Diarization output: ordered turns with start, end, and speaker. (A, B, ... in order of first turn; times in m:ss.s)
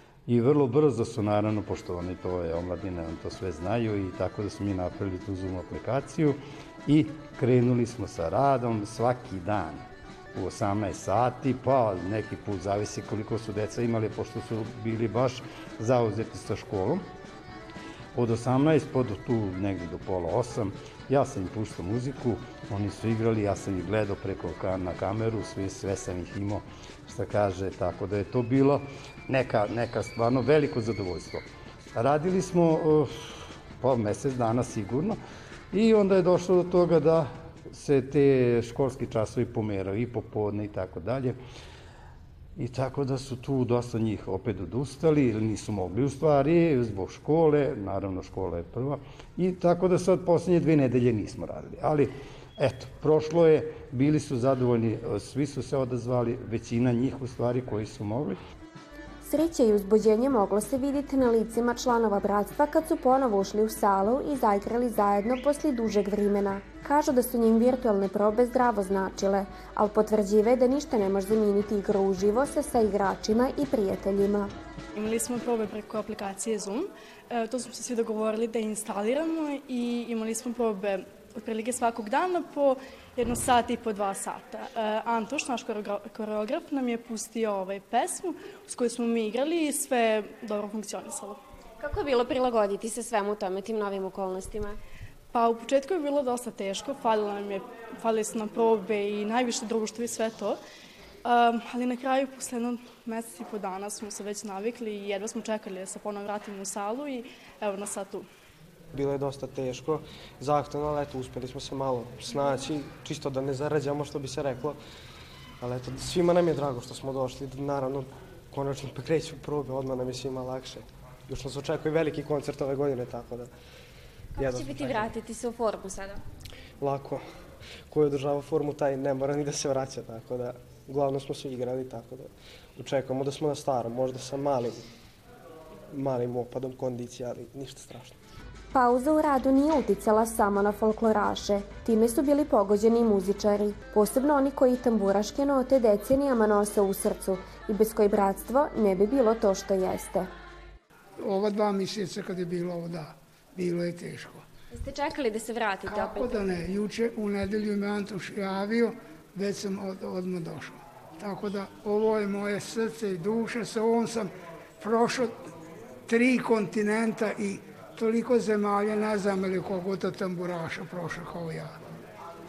0:00.3-0:09.8 A
0:10.3-0:17.0 A
0:18.1-0:35.2 A
0:35.7-0:41.4 A
0:42.6-0:58.4 A
0:59.2-1:14.5 B
1:14.9-1:31.4 C
1:31.8-1:34.8 B
1:35.3-1:40.6 C
1:41.2-1:48.3 C
1:48.9-1:54.8 D
1:55.6-2:03.5 D
2:04.4-2:05.2 D
2:05.2-2:05.9 B
2:06.8-2:07.2 D
2:07.9-2:14.8 D
2:15.9-2:18.2 D
2:18.7-2:30.3 B
2:31.2-2:34.4 E
2:34.7-2:36.3 B
2:35.8-2:45.4 E
2:46.1-2:51.7 E